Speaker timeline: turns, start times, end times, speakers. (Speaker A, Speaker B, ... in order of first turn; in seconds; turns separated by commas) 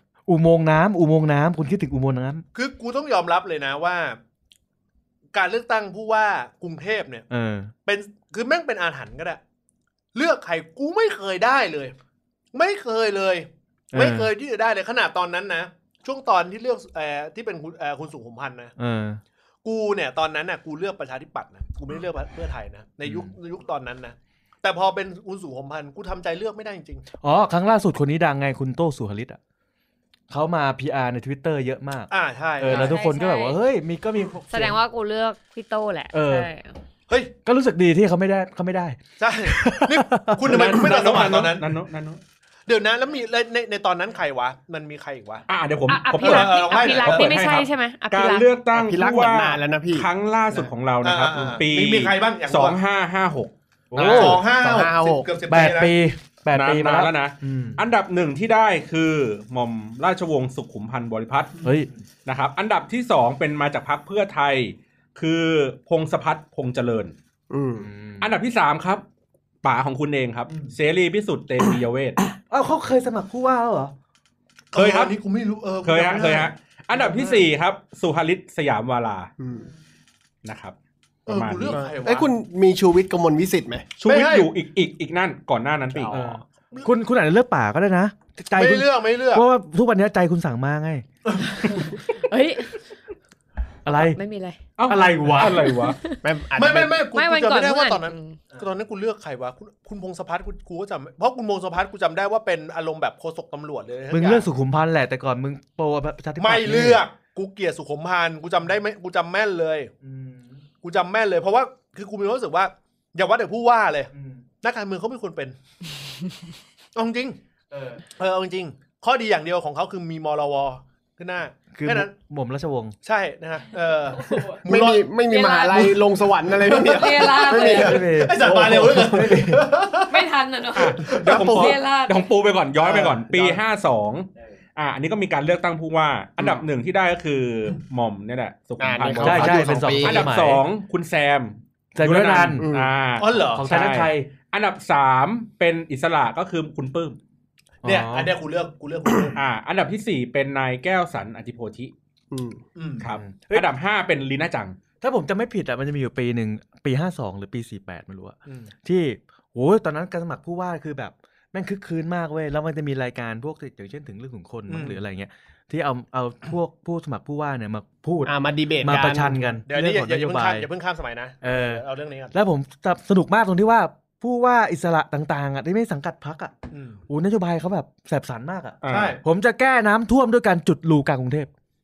Speaker A: 0.3-2.4, Speaker B: 2.5-4.2, Speaker B: 5.3-7.3, Speaker A: 7.3-7.7, Speaker B: 7.9-9.4, Speaker B: 10.1-11.9, Speaker B: 12.5-18.7, Speaker A: 13.9-14.3, Speaker A: 18.8-19.2, Speaker B: 19.6-27.1, Speaker A: 27.2-29.4, Speaker A: 30.3-34.8, Speaker B: 32.1-33.0, Speaker C: 32.7-33.6, Speaker C: 34.5-36.8, Speaker A: 36.1-36.5, Speaker A: 37.5-40.4, Speaker B: 39.2-41.7, Speaker D: 40.5-42.2, Speaker B: 42.7-45.5, Speaker D: 45.5-53.5, Speaker C: 45.9-48.5, Speaker B: 46.2-47.3, Speaker E: 48.7-50.1, Speaker B: 50.5-52.8, Speaker A: 53.9-54.4, Speaker B: 53.9-55.9, Speaker E: 54.0-55.3, Speaker A: 55.5-57.8, Speaker D: 56.5-61.7, Speaker A: 61.6-61.9, Speaker D: 62.2-67.1, Speaker E: 67.5-67.9, Speaker A: 67.8-68.3, Speaker D: 68.2-69.0, Speaker D: 69.6-72.2, Speaker A: 72.5-73.9, Speaker B: 74.7-77.4, Speaker D: 74.7-75.2, Speaker D: 75.8-79.3, Speaker E: 79.4-79.7, Speaker D: 80.4-80.8, Speaker D: 81.3-81.8, Speaker B: 81.3-82.3, Speaker E: 81.7-83.9, Speaker D: 84.0-86.2, Speaker B: 84.0-84.5, Speaker B: 86.0-86.9, Speaker A: 86.1-91.0, Speaker B: 88.6-89.4, Speaker C: 91.6-92.8, Speaker A: 93.8-94.2, Speaker C: 94.0-94.6, Speaker D: 94.8-96.0, Speaker A: 94.9-95.8, Speaker C: 95.7-96.2, Speaker E: 96.2-97.0, Speaker B: 96.6-104.5, Speaker C: 97.1-98.4, Speaker A: 104.1-107.0, Speaker B: 106.4-109.9, Speaker A: 110.0-110.7, Speaker B: 110.8-114.1, Speaker A: 114.1-114.4, Speaker B: 114.6-115.5, Speaker B: 117.0-117.4, Speaker A: 117.7-118.0, Speaker B: 118.2-122.1, Speaker A: 121.7-123.0, Speaker B: 123.0-125.0, Speaker E: 124.7-129.4, Speaker C: 125.2-126.0, Speaker B: 126.6-130.3, Speaker C: 126.7-128.0, Speaker A: 127.7-129.6, Speaker C: 130.1-132.3, Speaker D: 130.8-147.2, Speaker B: 131.0-131.4, Speaker E: 131.3-131.8, Speaker B: 132.9-133.5, Speaker E: 138.8-140.3, Speaker A: 139.2-140.6, Speaker A: 142.0-142.7, Speaker E: 142.6-142.9, Speaker B: 143.2-143.7, Speaker A: 143.5-144.3, Speaker A: 147.8-148.3, Speaker B: 147.8-149.4, Speaker D: 149.4-151.9, Speaker E: 152.3-152.6, Speaker B: 152.8-153.1, Speaker D: 153.0-154.8, Speaker A: 153.2-153.7, Speaker A: 155.0-170.7, Speaker B: 158.5-158.7, Speaker B: 164.7-165.0, Speaker E: 168.3-169.4, Speaker B: 169.7-172.3, Speaker A: 171.4-176.5, Speaker B: 176.7-177.0, Speaker A: 177.1-181.5, Speaker D: 178.8-179.2, Speaker B: 178.9-179.2